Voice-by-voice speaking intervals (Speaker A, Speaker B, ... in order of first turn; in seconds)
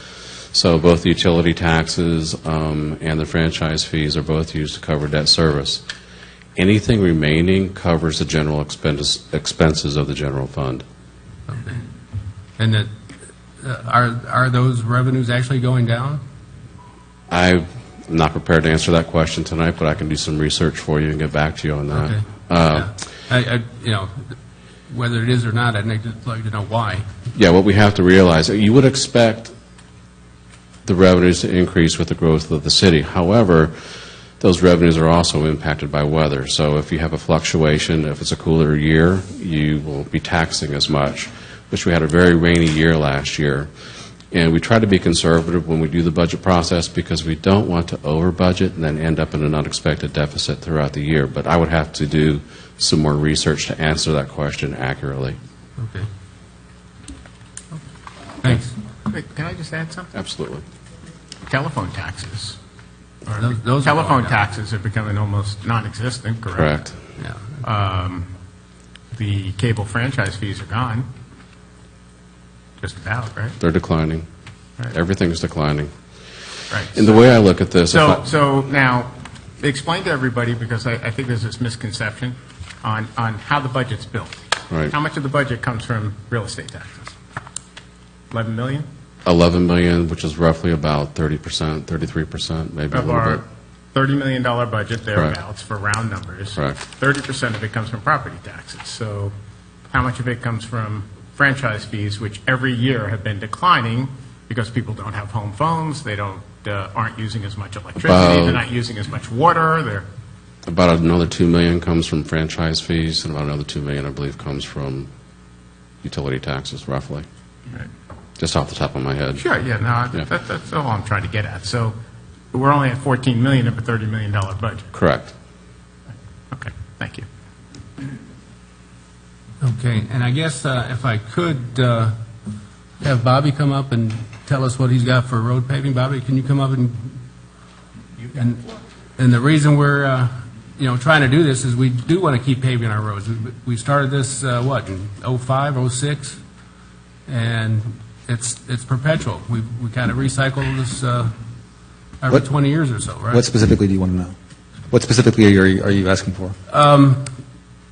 Speaker A: 0.5-5.8, 6.5-10.8, 17.3-22.9, 27.3-29.5, 30.9-33.7, 34.4-43.7, 44.3-55.4, 60.1-60.6, 66.5-67.0, 73.6-74.3, 74.8-78.3, 89.2-93.4, 108.0-108.6, 110.7-115.1, 116.0-117.2, 118.4-119.4, 124.9-125.3
Speaker B: 11.5-11.8, 12.6-12.9, 13.6-16.2, 21.9-24.3, 24.9-27.1, 55.8-56.1, 58.4-58.7, 63.4-64.3, 67.2-67.6, 129.6-132.1, 133.0-137.2, 138.3-146.4, 147.3-151.3, 152.2-153.4, 156.7-157.2
Speaker C: 59.1-60.1, 61.5-62.6, 63.2-66.9, 67.6-68.3, 69.1-71.1, 72.8-73.5, 76.7-87.1, 88.3-88.9, 92.9-99.3, 99.9-110.1, 119.3-122.0, 122.5-124.9, 126.5-127.3
Speaker D: 153.3-154.3, 154.9-156.6